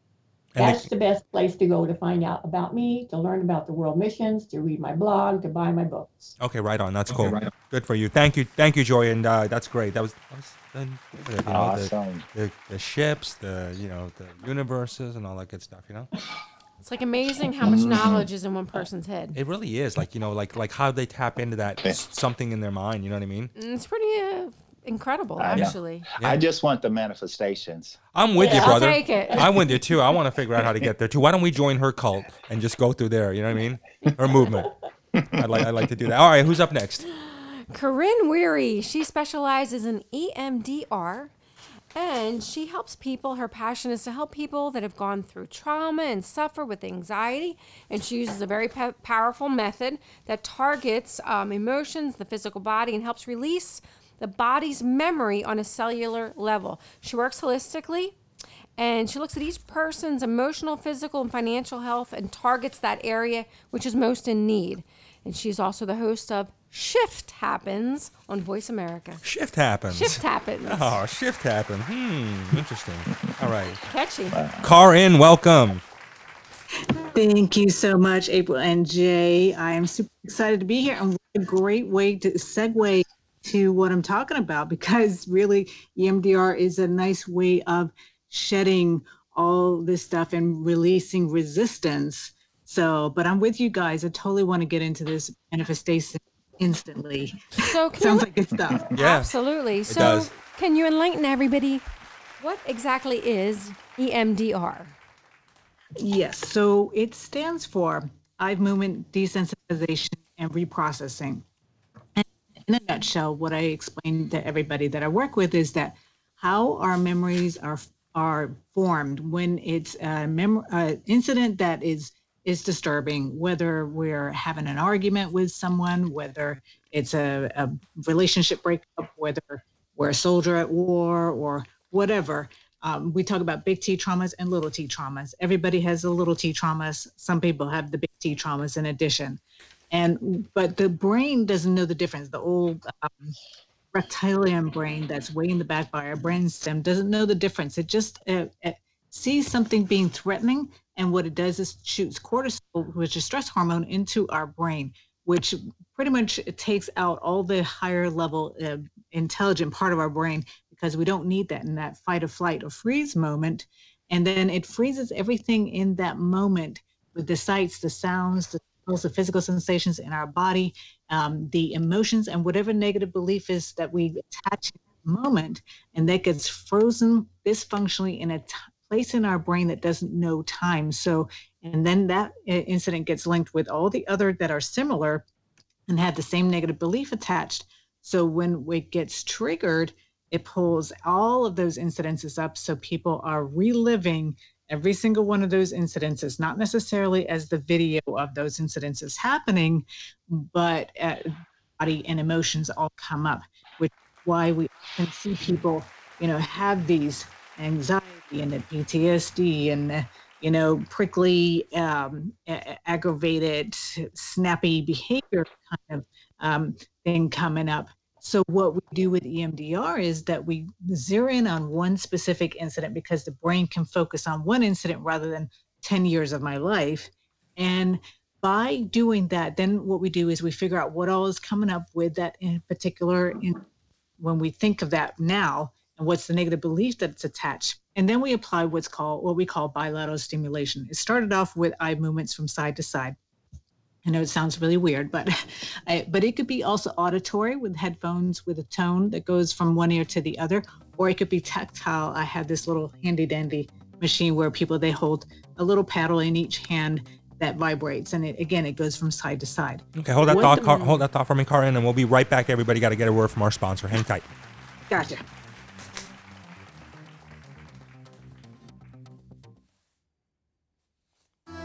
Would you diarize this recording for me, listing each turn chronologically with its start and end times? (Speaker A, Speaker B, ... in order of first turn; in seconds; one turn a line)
Speaker A: 0.5-0.8
Speaker B: 0.6-6.3
Speaker A: 6.4-16.1
Speaker C: 7.1-7.5
Speaker C: 11.4-12.2
Speaker D: 16.8-19.4
Speaker C: 17.6-18.3
Speaker A: 19.3-23.5
Speaker D: 23.5-26.1
Speaker C: 25.4-28.0
Speaker A: 28.1-34.7
Speaker B: 28.4-29.4
Speaker D: 28.4-29.4
Speaker C: 30.6-30.9
Speaker C: 35.2-35.5
Speaker A: 35.4-37.1
Speaker D: 37.2-41.3
Speaker D: 41.9-58.1
Speaker D: 58.8-69.2
Speaker A: 69.2-73.8
Speaker D: 69.9-71.0
Speaker D: 73.9-74.4
Speaker C: 74.3-74.7
Speaker A: 74.6-75.8
Speaker E: 77.1-98.9
Speaker D: 97.6-98.2
Speaker A: 98.9-99.3
Speaker D: 99.0-101.8
Speaker A: 99.9-100.3
Speaker D: 102.4-104.9
Speaker E: 106.0-111.4
Speaker E: 112.2-143.4
Speaker E: 143.9-185.2
Speaker E: 185.9-233.6
Speaker E: 234.2-243.2
Speaker E: 244.0-261.0
Speaker A: 259.9-264.3
Speaker D: 260.3-260.7
Speaker E: 264.9-265.2